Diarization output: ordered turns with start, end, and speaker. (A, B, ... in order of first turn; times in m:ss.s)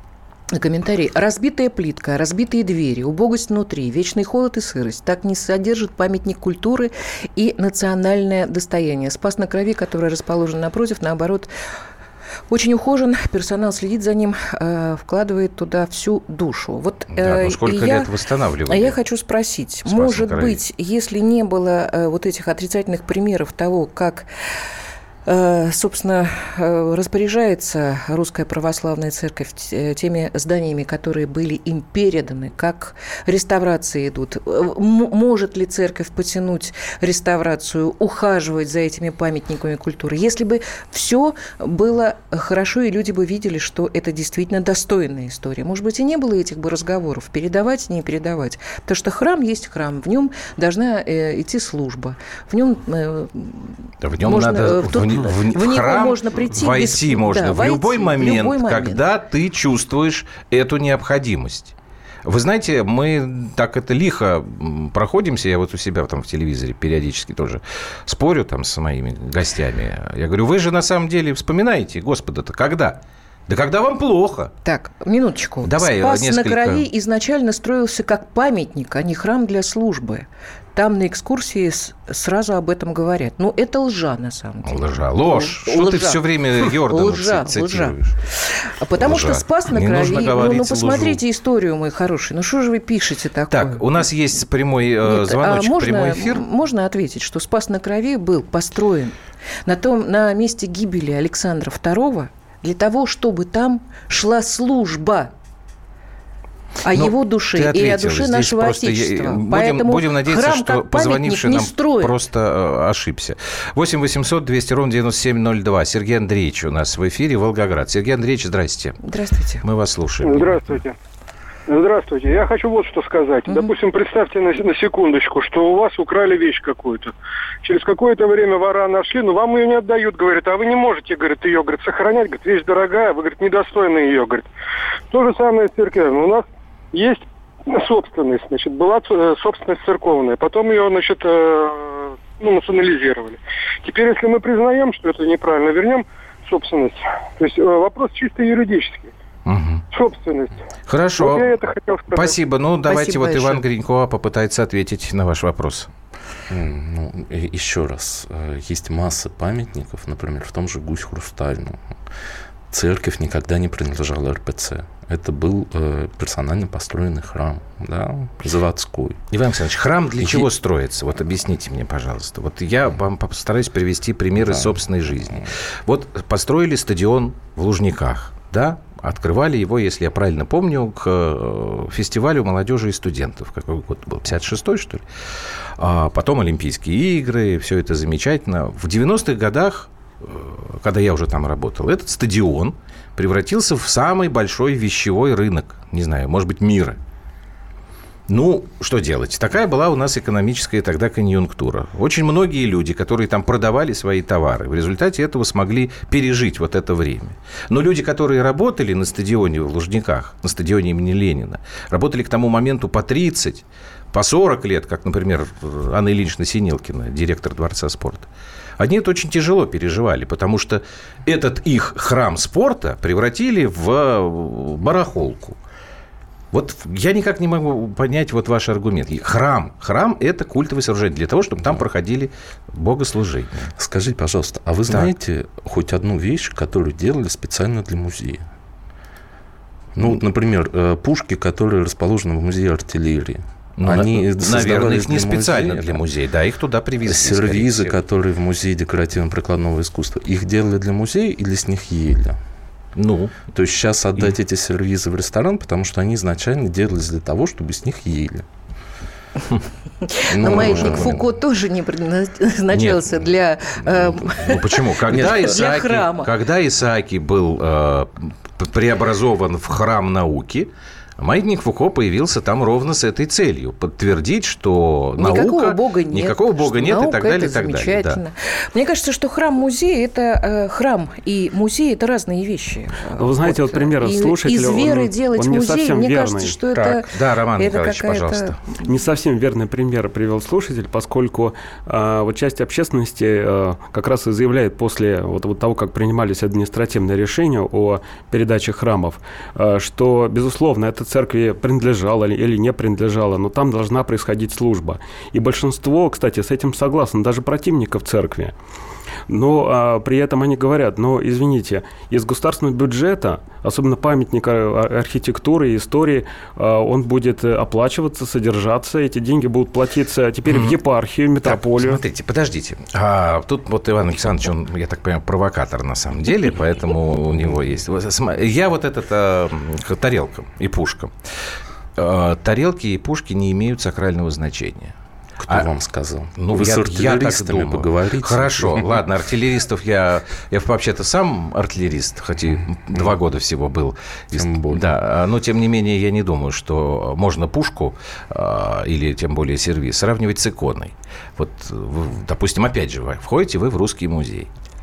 0:00.5-0:11.5 A
0:12.5-0:18.1 A
0:17.1-0:18.9 B
0:18.7-0:24.3 A
0:19.9-0:20.6 B
0:25.2-0:59.0 A
0:54.0-1:01.7 B
1:02.2-1:14.5 B
1:14.6-1:33.8 A
1:15.6-1:16.8 B
1:24.6-1:28.2 B
1:29.0-1:31.2 B
1:33.5-1:36.4 B
1:35.0-1:45.3 A
1:46.8-1:52.2 A
1:46.9-1:59.0 B
1:59.0-1:59.6 A
1:59.6-2:00.7 B
2:00.2-2:01.0 C
2:01.7-2:07.1 C
2:07.6-2:14.5 C
2:15.1-2:29.1 C
2:29.4-2:29.8 B
2:29.9-2:30.6 C
2:30.9-2:31.5 B
2:31.2-2:32.4 C
2:32.1-2:35.9 B
2:32.9-2:33.6 A
2:36.5-2:41.8 D
2:42.7-2:49.2 D
2:49.3-3:05.0 B
2:50.2-2:50.5 D
2:54.4-2:55.5 D
3:05.8-3:17.0 B
3:18.3-3:45.6 B
3:46.5-3:53.7 B
3:53.8-3:58.4 D
4:00.0-4:06.0 D
4:03.8-4:07.9 B
4:07.0-4:12.4 D
4:13.0-4:13.4 B
4:13.5-4:18.4 D
4:20.0-4:26.3 A
4:20.3-4:21.2 D
4:20.4-4:21.2 B
4:22.7-4:23.2 B
4:23.8-4:24.3 D
4:24.3-4:38.2 B
4:25.1-4:25.5 D
4:35.2-4:48.8 A
4:43.2-4:46.6 E
4:46.7-4:48.6 B
4:48.8-5:08.5 E
5:09.3-5:22.0 E
5:20.5-5:20.8 B
5:21.4-5:31.1 B
5:32.0-5:34.9 B
5:35.4-5:39.0 D
5:36.4-5:54.5 B
5:44.3-5:44.9 D